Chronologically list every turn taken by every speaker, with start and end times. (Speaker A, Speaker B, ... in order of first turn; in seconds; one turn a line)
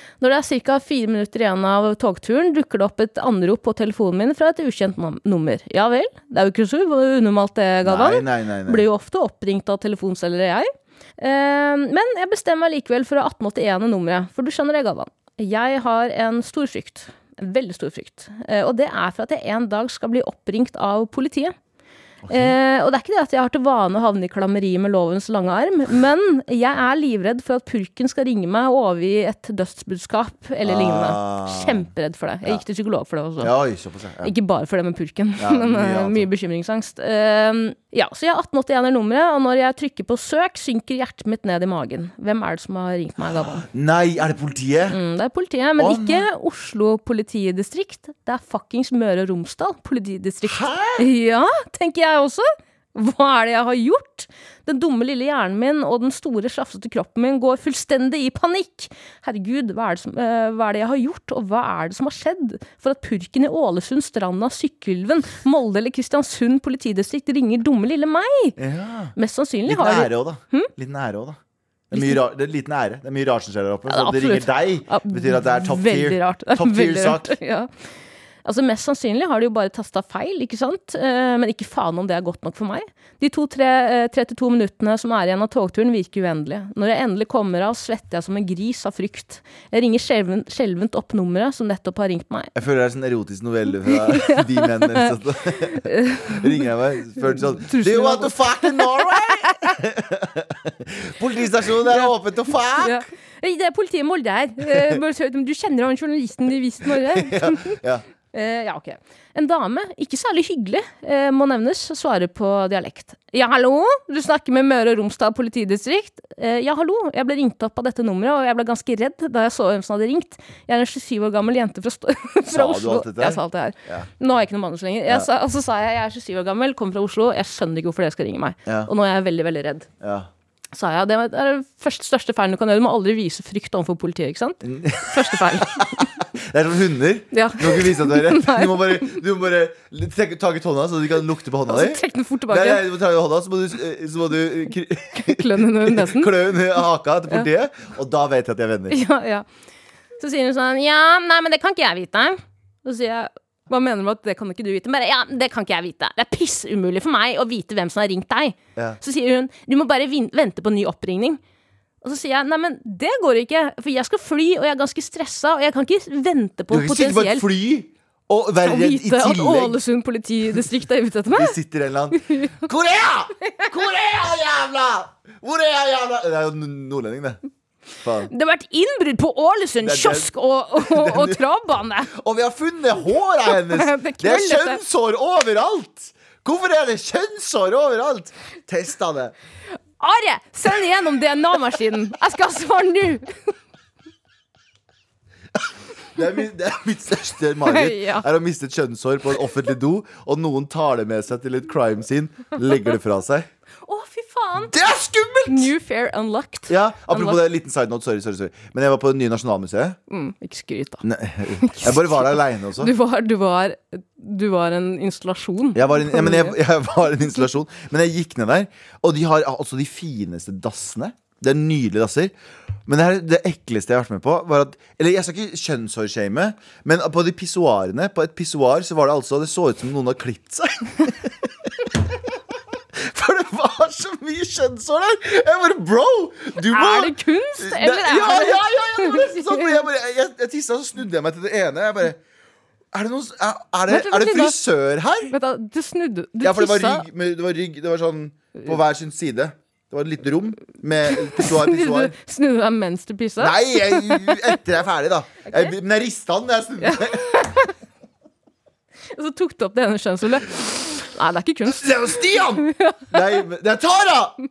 Speaker A: 0.2-21.5
Speaker B: 7.8-8.8
Speaker B: 22.2-22.6
Speaker A: 22.3-33.5
Speaker B: 30.6-31.9
Speaker B: 33.4-34.3
Speaker A: 34.2-43.6
Speaker B: 35.4-36.3
Speaker B: 43.4-45.0
Speaker A: 44.9-68.6
Speaker B: 45.8-46.2
Speaker B: 50.4-51.1
Speaker B: 68.6-69.1
Speaker A: 69.2-70.7
Speaker B: 69.7-71.4
Speaker B: 71.9-77.4
Speaker A: 71.9-72.2
Speaker A: 73.9-77.7
Speaker A: 78.4-92.5
Speaker B: 92.5-103.0
Speaker A: 93.9-96.6
Speaker A: 97.2-99.7
Speaker A: 102.8-107.8
Speaker B: 104.7-105.0
Speaker B: 106.8-108.0
Speaker A: 108.3-129.9
Speaker B: 122.5-124.1
Speaker B: 130.0-130.3
Speaker A: 130.7-136.1
Speaker B: 134.6-149.0
Speaker A: 137.3-139.2
Speaker A: 141.7-142.9
Speaker A: 145.1-146.3
Speaker A: 148.9-149.4
Speaker A: 150.2-161.4
Speaker A: 162.0-167.5
Speaker B: 166.7-169.8
Speaker A: 168.6-171.6
Speaker B: 171.3-177.4
Speaker A: 172.2-172.6
Speaker B: 178.0-178.3
Speaker A: 178.2-182.1
Speaker B: 179.8-181.4
Speaker B: 182.1-189.3
Speaker A: 183.4-184.8
Speaker A: 190.0-193.3
Speaker B: 196.1-203.5
Speaker A: 197.6-198.3
Speaker A: 203.8-204.7
Speaker B: 204.6-205.7
Speaker A: 205.5-207.4
Speaker B: 206.7-210.0
Speaker A: 210.1-211.0
Speaker B: 211.0-212.9
Speaker A: 211.6-216.6
Speaker B: 215.7-222.3
Speaker B: 222.8-232.4
Speaker B: 232.9-242.2
Speaker A: 236.6-239.7
Speaker B: 242.9-245.3
Speaker A: 243.9-244.6
Speaker A: 245.3-247.1
Speaker B: 246.4-252.1
Speaker A: 251.1-254.6
Speaker B: 253.4-257.4
Speaker A: 255.5-255.7
Speaker A: 256.8-257.7
Speaker A: 259.1-263.4
Speaker B: 261.6-264.4